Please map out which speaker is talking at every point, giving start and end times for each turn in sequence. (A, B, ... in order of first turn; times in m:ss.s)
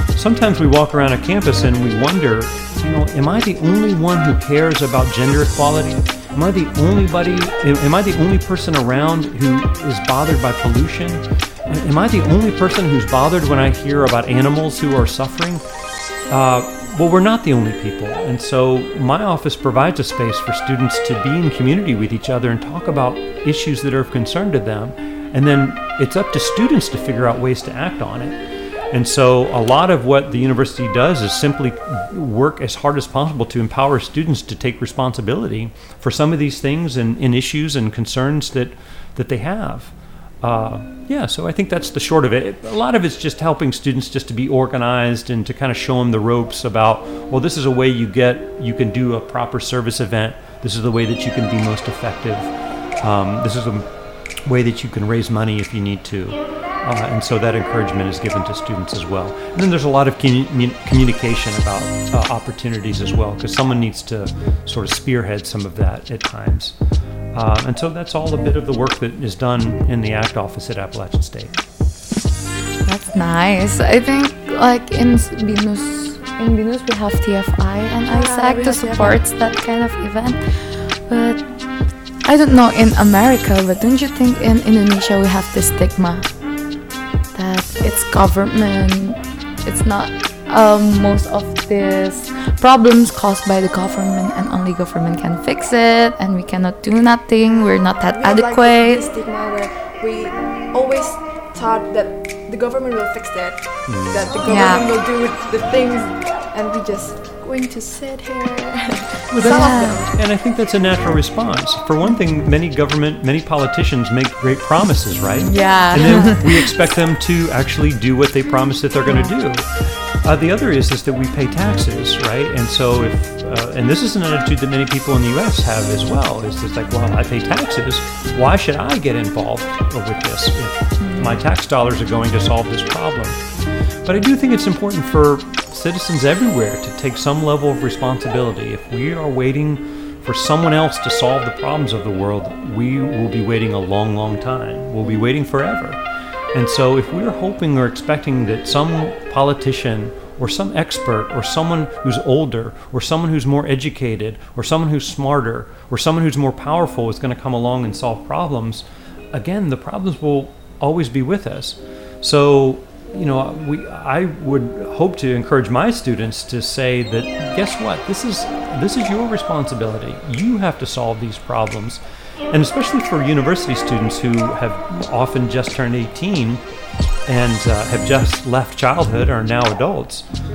0:00.2-0:15.6 A
0:16.3-0:28.4 A
0:28.9-0:53.9 A
0:54.4-1:06.8 A
1:07.3-1:11.6 A
1:12.8-1:21.4 B
1:18.1-1:19.2 C
1:22.3-1:26.3 B
1:27.3-1:39.0 B
1:37.5-1:50.1 C
1:43.9-1:44.4 A
1:44.5-1:44.8 B
1:49.3-1:59.7 A
1:49.4-1:50.0 B
1:55.4-1:56.4 B
1:55.5-1:56.4 C
2:00.2-2:13.4 A
2:11.0-2:11.4 B
2:14.0-2:26.0 A
2:26.5-2:56.6 A
2:57.3-3:00.3 A